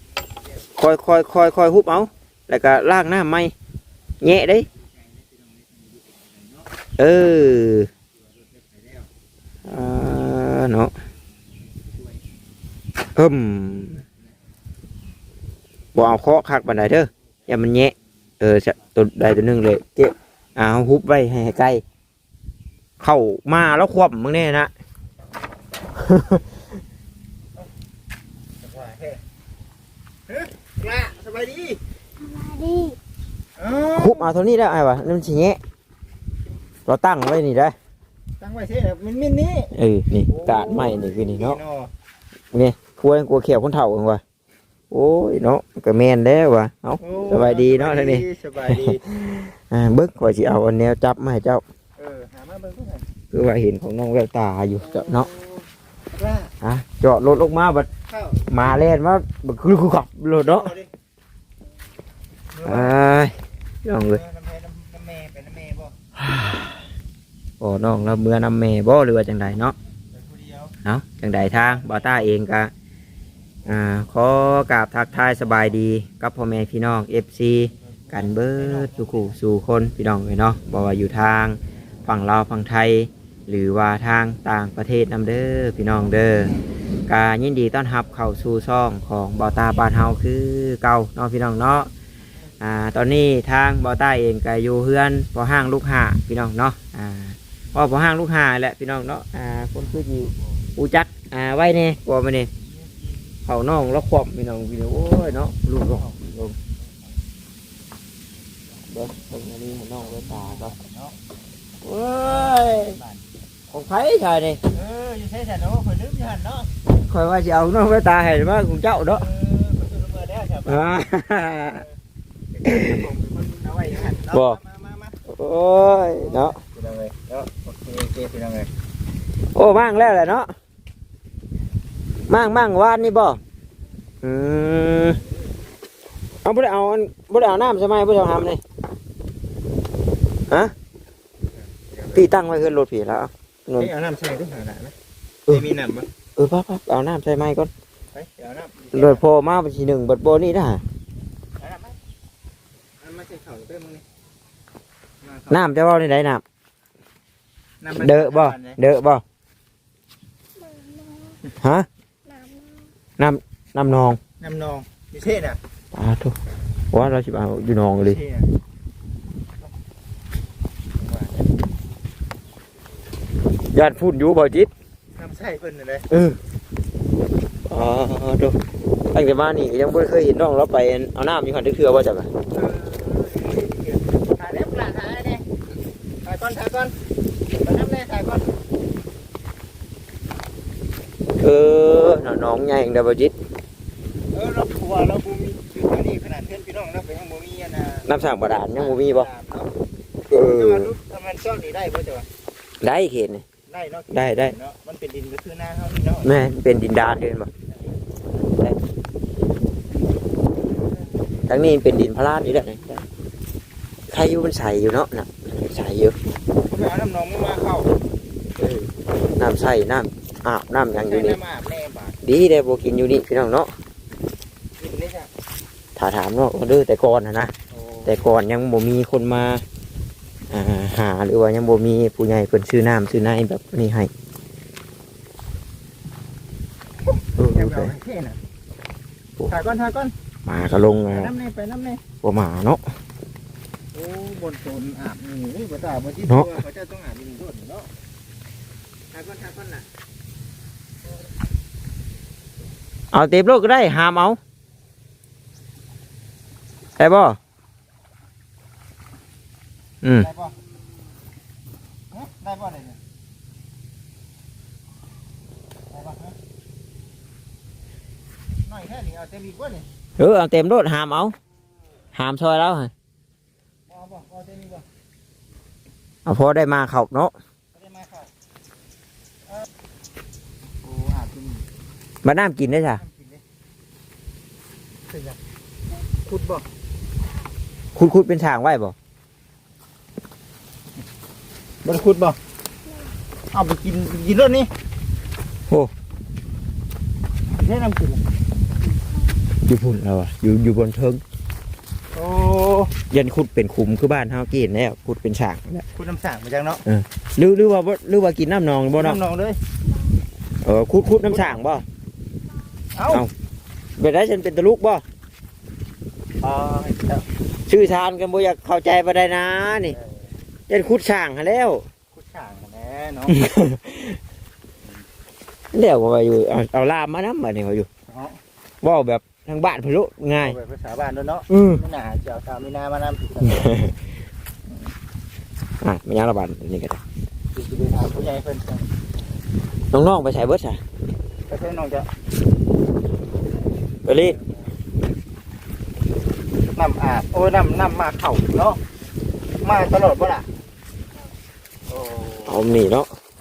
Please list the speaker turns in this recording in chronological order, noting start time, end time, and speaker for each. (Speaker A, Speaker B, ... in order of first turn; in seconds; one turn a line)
Speaker A: 0.8-3.5
Speaker A: 4.2-4.7
Speaker A: 7.0-7.9
Speaker A: 9.7-10.9
Speaker A: 13.2-14.0
Speaker A: 15.9-21.8
Speaker A: 23.0-24.7
Speaker A: 25.9-26.4
Speaker B: 28.6-29.2
Speaker B: 30.3-31.8
Speaker C: 32.2-33.0
Speaker B: 33.6-34.3
Speaker A: 33.9-35.6
Speaker A: 36.9-37.8
Speaker B: 38.4-39.7
Speaker A: 39.7-41.6
Speaker B: 40.3-41.9
Speaker A: 42.5-44.2
Speaker A: 44.9-51.6
Speaker B: 47.0-49.5
Speaker B: 52.0-53.1
Speaker A: 53.3-55.3
Speaker B: 54.9-56.5
Speaker A: 56.6-57.9
Speaker B: 58.1-58.9
Speaker A: 58.5-60.7
Speaker B: 60.4-60.9
Speaker B: 62.5-62.9
Speaker A: 62.6-64.2
Speaker B: 64.0-65.9
Speaker A: 66.2-66.8
Speaker A: 67.6-69.7
Speaker B: 70.1-70.7
Speaker A: 70.8-72.7
Speaker B: 71.5-72.2
Speaker A: 73.7-86.5
Speaker B: 78.1-79.3
Speaker A: 87.1-91.9
Speaker A: 92.6-102.5
Speaker B: 102.8-103.0
Speaker A: 103.5-106.5
Speaker A: 108.9-110.7
Speaker B: 110.0-111.2
Speaker A: 111.8-113.0
Speaker B: 112.3-113.2
Speaker A: 113.7-114.6
Speaker B: 114.7-116.7
Speaker A: 116.9-119.2
Speaker B: 119.2-120.8
Speaker A: 120.7-121.8
Speaker B: 122.5-125.1
Speaker A: 122.6-123.0
Speaker A: 124.3-124.6
Speaker A: 125.2-126.6
Speaker B: 126.2-128.7
Speaker A: 129.5-130.5
Speaker A: 132.3-133.4
Speaker A: 134.2-135.2
Speaker A: 136.4-138.6
Speaker A: 140.5-140.7
Speaker B: 141.6-142.2
Speaker A: 142.1-143.9
Speaker B: 143.8-144.9
Speaker B: 145.5-146.1
Speaker A: 146.3-147.7
Speaker B: 148.1-149.2
Speaker A: 148.9-150.8
Speaker B: 151.6-151.9
Speaker B: 153.0-154.0
Speaker B: 155.2-155.6
Speaker A: 155.5-156.4
Speaker B: 157.8-158.8
Speaker A: 157.9-159.2
Speaker C: 160.6-161.4
Speaker A: 161.6-161.9
Speaker C: 162.2-162.9
Speaker A: 163.2-164.2
Speaker B: 164.4-165.6
Speaker A: 165.9-166.4
Speaker A: 166.9-168.2
Speaker B: 168.0-168.5
Speaker B: 171.0-171.5
Speaker A: 173.7-174.7
Speaker B: 175.2-176.1
Speaker A: 176.1-176.4
Speaker A: 177.7-178.6
Speaker A: 179.1-182.3
Speaker B: 182.5-185.4
Speaker B: 186.2-186.9
Speaker B: 187.6-188.5
Speaker A: 191.4-193.3
Speaker B: 194.3-199.7
Speaker A: 198.1-199.3
Speaker A: 200.3-200.9
Speaker B: 200.3-202.3
Speaker A: 202.8-203.4
Speaker B: 203.7-206.3
Speaker A: 204.1-204.5
Speaker A: 206.2-207.5
Speaker A: 211.5-213.0
Speaker A: 214.1-216.2
Speaker B: 216.6-217.9
Speaker A: 218.6-221.4
Speaker B: 220.9-222.2
Speaker A: 222.2-223.7
Speaker B: 224.8-225.3
Speaker A: 225.9-227.5
Speaker B: 227.7-228.2
Speaker A: 228.0-229.6
Speaker A: 230.5-234.1
Speaker B: 237.1-238.4
Speaker A: 237.4-237.9
Speaker B: 239.5-240.1
Speaker A: 240.4-241.3
Speaker B: 240.8-242.0
Speaker A: 242.2-242.8
Speaker B: 243.9-247.9
Speaker A: 246.2-246.6
Speaker B: 249.1-249.8
Speaker A: 253.1-254.4
Speaker A: 257.0-257.4
Speaker A: 260.0-260.3
Speaker B: 260.2-260.5
Speaker B: 262.1-263.0
Speaker B: 265.9-266.3
Speaker B: 268.6-269.9
Speaker A: 270.2-271.3
Speaker A: 272.1-272.9
Speaker B: 273.9-274.8
Speaker A: 276.2-277.3
Speaker B: 277.7-278.3
Speaker B: 280.8-281.6
Speaker A: 282.2-283.0
Speaker B: 283.0-283.4
Speaker B: 285.1-285.4
Speaker B: 286.2-286.6
Speaker A: 287.9-288.9
Speaker B: 291.8-292.4
Speaker B: 293.5-294.7
Speaker B: 297.6-298.2
Speaker A: 299.7-301.2
Speaker B: 302.1-302.9
Speaker A: 303.1-305.9
Speaker B: 305.9-306.8
Speaker A: 306.9-309.2
Speaker B: 308.9-309.6
Speaker A: 310.6-311.8
Speaker B: 311.3-311.6
Speaker B: 312.9-313.2
Speaker A: 314.0-315.0
Speaker B: 316.4-317.2
Speaker A: 317.7-320.0
Speaker B: 319.9-320.2
Speaker A: 320.7-321.9
Speaker B: 322.1-323.4
Speaker A: 323.3-324.2
Speaker A: 325.7-327.9
Speaker B: 328.1-328.4
Speaker A: 328.8-330.6
Speaker B: 330.4-333.7
Speaker A: 331.5-331.8
Speaker A: 333.4-333.9
Speaker A: 335.8-337.0
Speaker B: 337.5-338.9
Speaker A: 339.9-340.8
Speaker B: 341.5-342.1
Speaker A: 344.0-344.4
Speaker B: 346.7-348.8
Speaker B: 349.6-350.5
Speaker B: 351.9-352.6
Speaker A: 352.4-353.1